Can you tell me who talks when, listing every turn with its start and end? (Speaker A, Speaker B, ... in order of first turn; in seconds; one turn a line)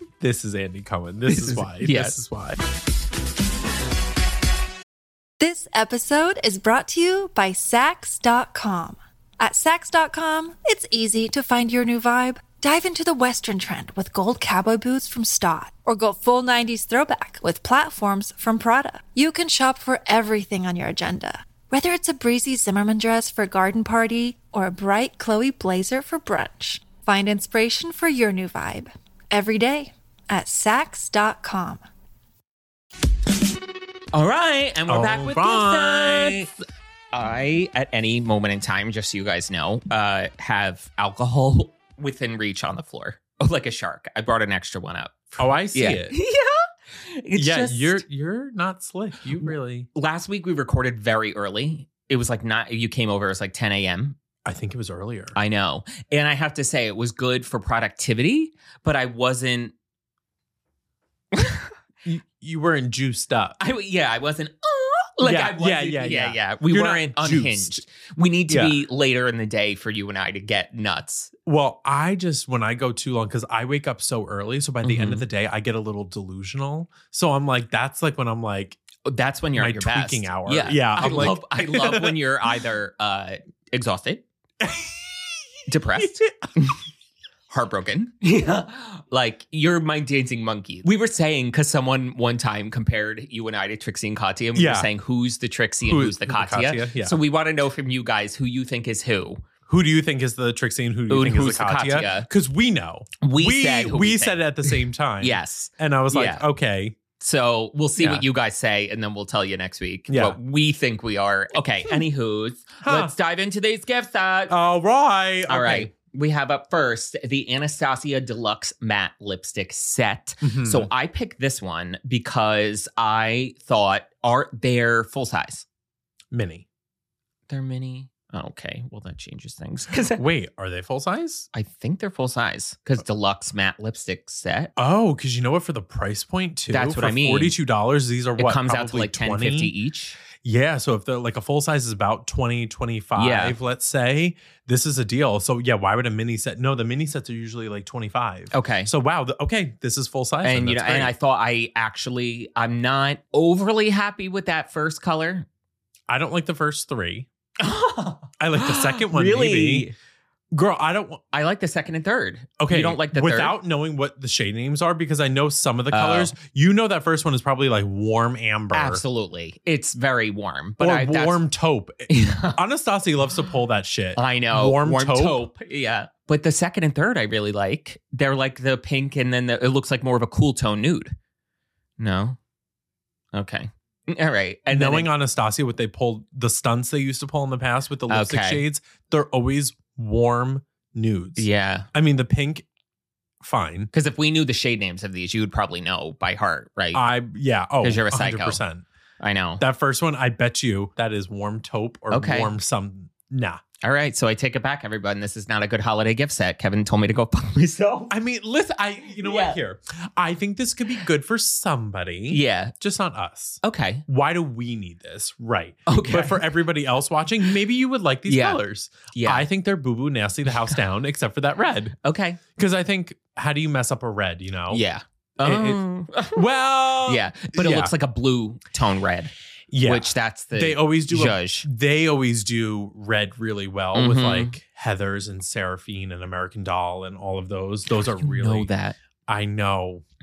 Speaker A: 0.2-2.6
Speaker B: 1.3-2.2
Speaker C: 5.4-31.8
Speaker B: 34.1-36.5
Speaker A: 34.9-36.4
Speaker B: 37.1-48.0
Speaker A: 45.4-46.1
Speaker A: 47.3-49.9
Speaker B: 49.3-54.2
Speaker A: 54.4-55.4
Speaker B: 55.3-59.7
Speaker B: 61.3-61.7
Speaker A: 62.0-63.6
Speaker B: 63.6-71.3
Speaker A: 65.2-67.8
Speaker A: 68.5-68.8
Speaker A: 71.5-78.8
Speaker B: 74.8-75.2
Speaker B: 79.0-84.2
Speaker A: 79.5-82.2
Speaker A: 84.6-85.4
Speaker B: 85.7-86.8
Speaker A: 86.0-86.5
Speaker B: 87.5-99.4
Speaker A: 94.5-94.9
Speaker A: 95.8-97.2
Speaker A: 99.7-107.0
Speaker B: 101.1-102.3
Speaker B: 103.2-106.4
Speaker B: 107.2-114.5
Speaker A: 108.0-108.2
Speaker A: 110.1-110.4
Speaker A: 112.8-113.1
Speaker A: 114.5-115.9
Speaker B: 115.5-125.6
Speaker A: 120.4-120.9
Speaker A: 126.3-126.6
Speaker B: 127.5-130.2
Speaker A: 130.1-131.4
Speaker B: 131.5-134.7
Speaker A: 134.8-139.7
Speaker B: 136.7-137.6
Speaker B: 138.4-140.2
Speaker A: 140.4-151.1
Speaker B: 143.2-143.6
Speaker B: 148.5-148.9
Speaker B: 150.4-155.4
Speaker A: 156.1-157.3
Speaker B: 157.6-159.9
Speaker A: 158.4-159.9
Speaker A: 160.5-161.2
Speaker B: 161.3-163.6
Speaker A: 162.6-169.0
Speaker B: 165.9-166.3
Speaker B: 168.7-171.4
Speaker A: 170.8-175.5
Speaker B: 172.1-172.6
Speaker B: 174.2-181.1
Speaker B: 182.0-182.4
Speaker B: 183.3-185.1
Speaker A: 184.7-192.7
Speaker B: 188.1-188.6
Speaker B: 191.4-191.9
Speaker A: 193.4-193.9
Speaker B: 193.9-197.0
Speaker A: 196.9-198.8
Speaker B: 197.8-198.6
Speaker B: 199.2-199.6
Speaker A: 199.6-203.6
Speaker B: 202.1-202.5
Speaker B: 203.8-208.1
Speaker A: 208.1-221.9
Speaker B: 209.2-209.6
Speaker B: 212.3-212.7
Speaker B: 213.6-214.0
Speaker B: 215.9-216.5
Speaker B: 218.3-218.6
Speaker B: 219.1-219.5
Speaker B: 222.0-222.4
Speaker A: 222.5-224.8
Speaker B: 224.7-226.4
Speaker A: 225.4-227.9
Speaker B: 227.0-229.3
Speaker A: 229.7-238.7
Speaker B: 229.8-231.7
Speaker B: 233.9-234.5
Speaker B: 238.2-238.9
Speaker A: 239.3-240.0